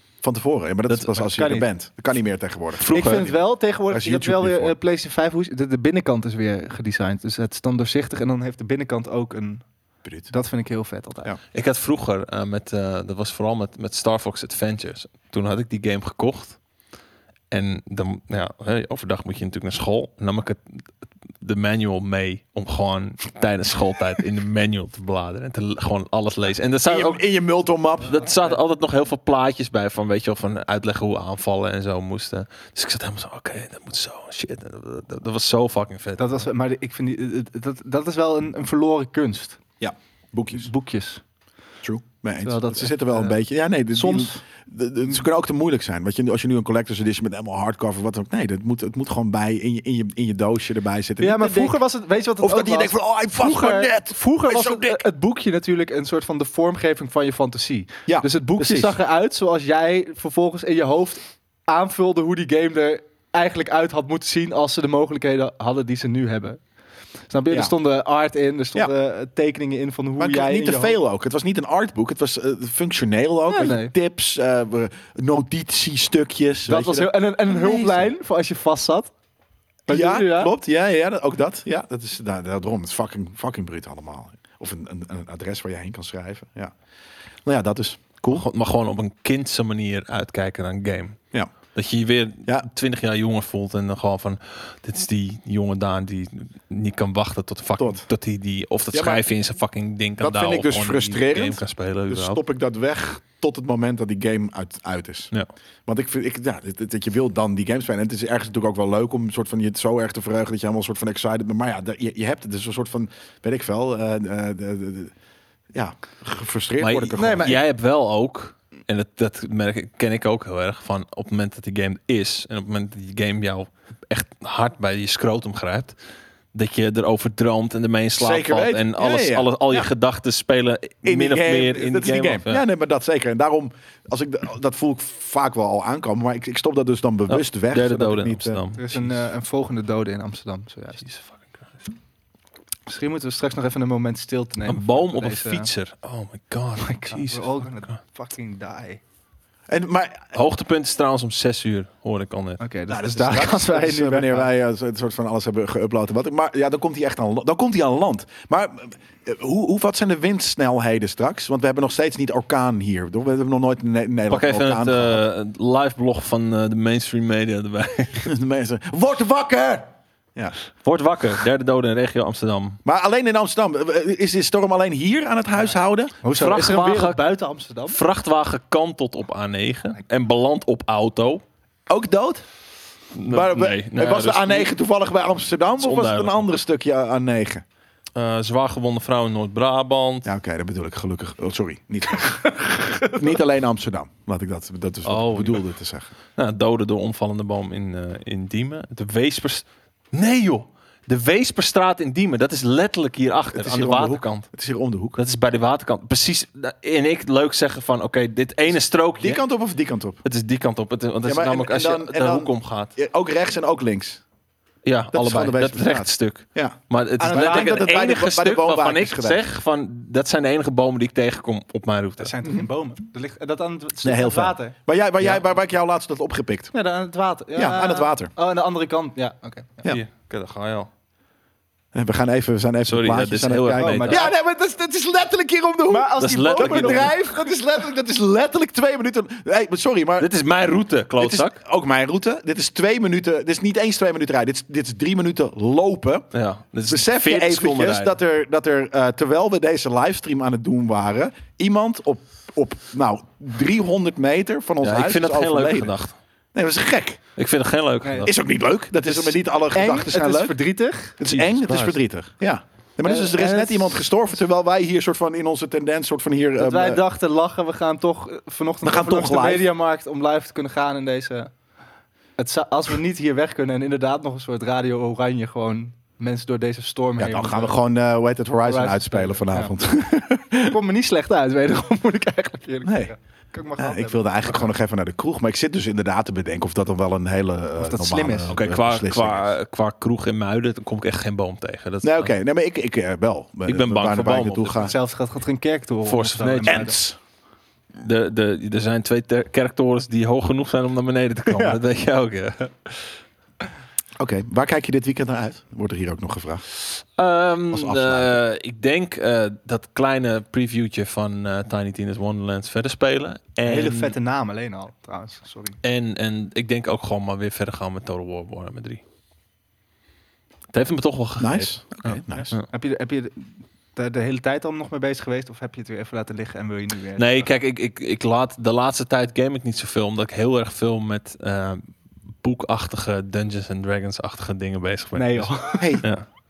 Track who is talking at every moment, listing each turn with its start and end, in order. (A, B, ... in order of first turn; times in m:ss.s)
0:00.2-0:04.8 A
0:01.2-0:01.7 B
0:02.8-0:03.2 C
0:02.9-0:09.7 B
0:10.0-0:10.3 A
0:10.3-0:11.3 B
0:11.5-0:16.6 C
0:17.5-0:20.8 C
0:21.4-0:27.2 C
0:26.8-0:28.2 A
0:28.0-0:36.4 C
0:36.2-0:39.6 B
0:39.8-0:40.7 A
0:40.5-0:41.2 B
0:41.8-0:51.8 A
0:42.4-0:43.4 B
0:43.9-0:44.4 B
0:51.2-1:06.6 B
0:52.4-0:55.0 A
0:58.1-0:58.9 A
1:07.3-1:11.0 B
1:10.2-1:18.1 A
1:13.5-1:13.9 B
1:16.7-1:19.1 B
1:19.9-1:20.5 B
1:19.9-1:26.7 A
1:27.4-1:28.4 A
1:28.3-1:31.2 C
1:31.7-1:42.4 C
1:37.8-1:38.0 A
1:38.9-1:39.2 A
1:40.2-1:45.3 A
1:45.9-1:55.1 A
1:55.7-1:57.6 A
1:56.8-2:06.0 C
1:57.1-1:57.6 B
2:06.5-2:12.6 C
2:08.2-2:09.9 A
2:11.0-2:18.6 A
2:17.3-2:19.2 C
2:18.8-2:21.0 B
2:21.0-2:21.6 C
2:22.9-2:25.7 B
2:24.7-2:27.8 C
2:26.8-2:29.0 B
2:29.7-2:30.3 A
2:30.3-2:32.6 C
2:32.6-2:34.5 B
2:32.9-2:45.2 A
2:44.3-2:48.3 C
2:48.2-2:50.5 A
2:50.8-2:52.8 C
2:52.8-2:56.1 A
2:56.2-2:58.0 B
2:56.2-2:57.2 C
2:57.9-3:01.4 C
3:01.9-3:02.4 A
3:03.1-3:04.7 C
3:03.3-3:07.6 A
3:05.8-3:06.4 C
3:08.1-3:10.3 C
3:10.2-3:16.1 A
3:12.6-3:13.1 B
3:15.0-3:15.6 C
3:16.4-3:24.5 C
3:23.5-3:25.2 A
3:25.1-3:29.4 C
3:29.2-3:30.2 A
3:30.2-3:32.9 C
3:31.2-3:34.2 A
3:34.8-3:42.3 C
3:35.1-3:39.4 A
3:37.2-3:37.9 B
3:42.2-3:45.4 B
3:44.0-3:46.7 A
3:46.7-3:49.9 B
3:47.5-3:48.3 A
3:49.8-3:50.9 C
3:51.9-4:00.3 A
3:52.8-3:54.3 C
3:53.8-3:54.3 B
3:55.9-3:57.4 B
3:56.2-3:57.1 C
4:00.2-4:01.6 C
4:01.2-4:06.3 A
4:06.3-4:08.1 C
4:06.9-4:15.9 A
4:14.8-4:16.2 C
4:16.5-4:17.2 A
4:17.4-4:18.3 C
4:18.0-4:18.3 B
4:18.2-4:20.6 A
4:19.0-4:21.2 B
4:21.2-4:27.0 A
4:21.2-4:22.0 C
4:23.0-4:24.0 B
4:26.6-4:31.5 B
4:28.8-4:29.7 A
4:32.4-4:37.8 B
4:37.2-4:40.8 A
4:38.6-4:39.7 B
4:40.6-4:44.2 B
4:42.8-4:43.1 A
4:43.8-4:49.5 A
4:47.8-4:48.6 B
4:48.5-4:52.3 C
4:52.0-4:54.9 A
4:53.6-4:54.9 C
4:54.8-4:57.0 B
4:56.0-4:56.9 C
4:56.6-4:57.2 A
4:58.0-5:03.2 C
5:04.2-5:06.6 A
5:06.8-5:14.1 C
5:07.7-5:08.4 A
5:13.6-5:15.8 B
5:15.8-5:19.0 C
5:20.7-5:22.7 C
5:21.4-5:22.5 A
5:22.7-5:27.5 B
5:27.2-5:31.9 C
5:32.4-5:36.2 C
5:35.1-5:36.0 B
5:35.8-5:36.1 A